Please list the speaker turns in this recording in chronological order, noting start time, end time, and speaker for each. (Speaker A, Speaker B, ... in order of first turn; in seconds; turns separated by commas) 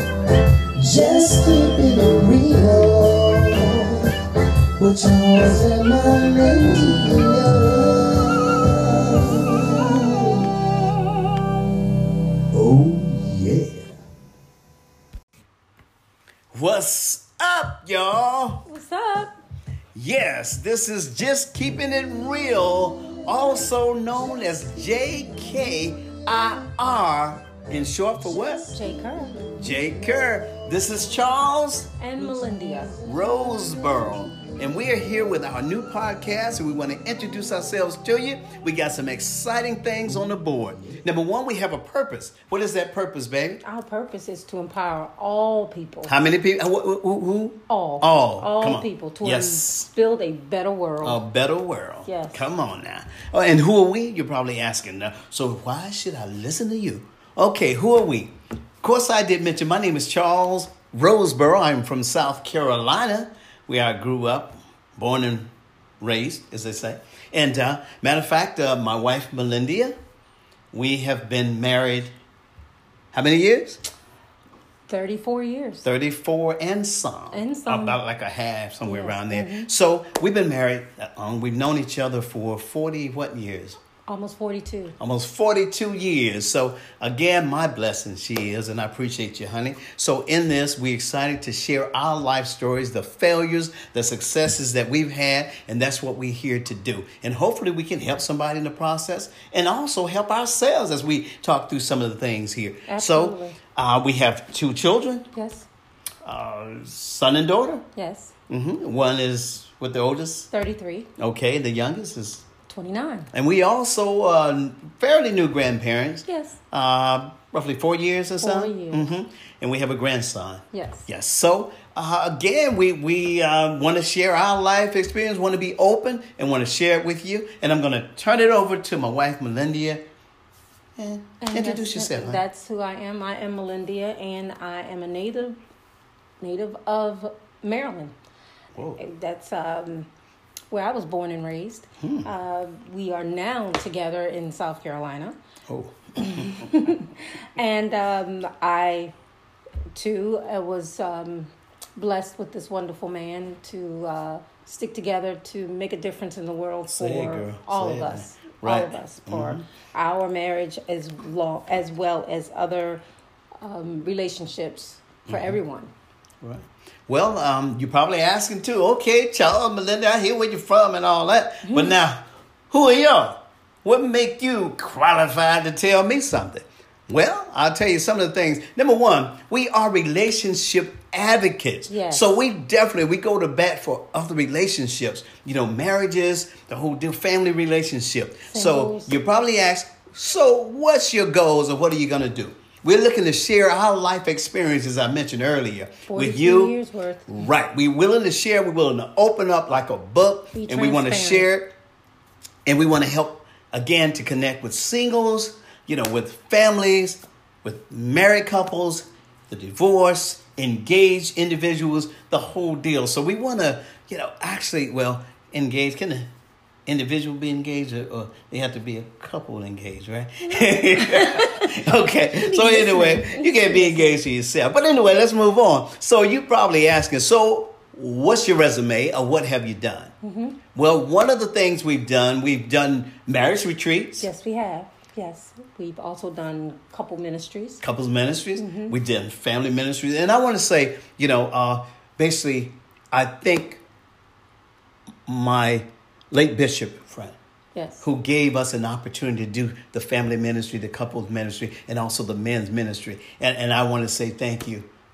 Speaker A: 0.7-4.1, Speaker A: 4.8-10.5, Speaker A: 12.5-13.9, Speaker A: 16.5-18.6, Speaker B: 18.6-19.3, Speaker A: 19.9-28.8, Speaker B: 28.7-29.4, Speaker A: 29.5-32.0, Speaker B: 32.0-33.0, Speaker A: 33.0-43.6, Speaker B: 43.6-46.2, Speaker A: 46.0-49.9, Speaker B: 47.7-51.2, Speaker A: 51.0-65.5, Speaker B: 52.0-52.4, Speaker A: 66.0-69.9, Speaker A: 70.7-72.1, Speaker A: 73.1-73.8, Speaker B: 74.9-75.9, Speaker A: 75.8-83.8, Speaker B: 77.3-78.0, Speaker B: 78.8-79.7, Speaker B: 84.1-84.9, Speaker A: 85.0-105.3, Speaker B: 102.9-103.6, Speaker B: 105.3-105.7, Speaker A: 106.2-107.8, Speaker B: 107.9-108.3, Speaker A: 108.5-110.5, Speaker B: 110.5-111.1, Speaker A: 111.2-112.4, Speaker B: 112.7-113.3, Speaker A: 113.3-130.0, Speaker B: 116.3-116.6, Speaker B: 118.4-119.1, Speaker B: 120.7-121.1, Speaker A: 131.0-132.4, Speaker B: 131.4-135.6, Speaker B: 136.4-138.1, Speaker B: 139.0-140.1, Speaker B: 140.7-145.3, Speaker A: 142.0-142.3, Speaker A: 145.7-146.6, Speaker B: 146.2-149.1, Speaker B: 149.9-163.0, Speaker A: 156.9-159.6, Speaker B: 163.6-165.9, Speaker A: 165.3-165.6, Speaker A: 166.4-196.8, Speaker B: 171.6-171.9, Speaker B: 181.9-182.4, Speaker B: 188.5-189.1, Speaker B: 196.1-197.3, Speaker A: 197.3-201.7, Speaker B: 200.5-201.5, Speaker A: 202.7-216.3, Speaker A: 216.8-230.1, Speaker B: 220.4-224.2, Speaker B: 230.2-230.6, Speaker A: 230.7-234.3, Speaker B: 234.2-237.8, Speaker A: 237.8-243.8, Speaker B: 238.6-239.0, Speaker A: 245.3-247.3, Speaker B: 247.7-248.1, Speaker A: 248.0-254.9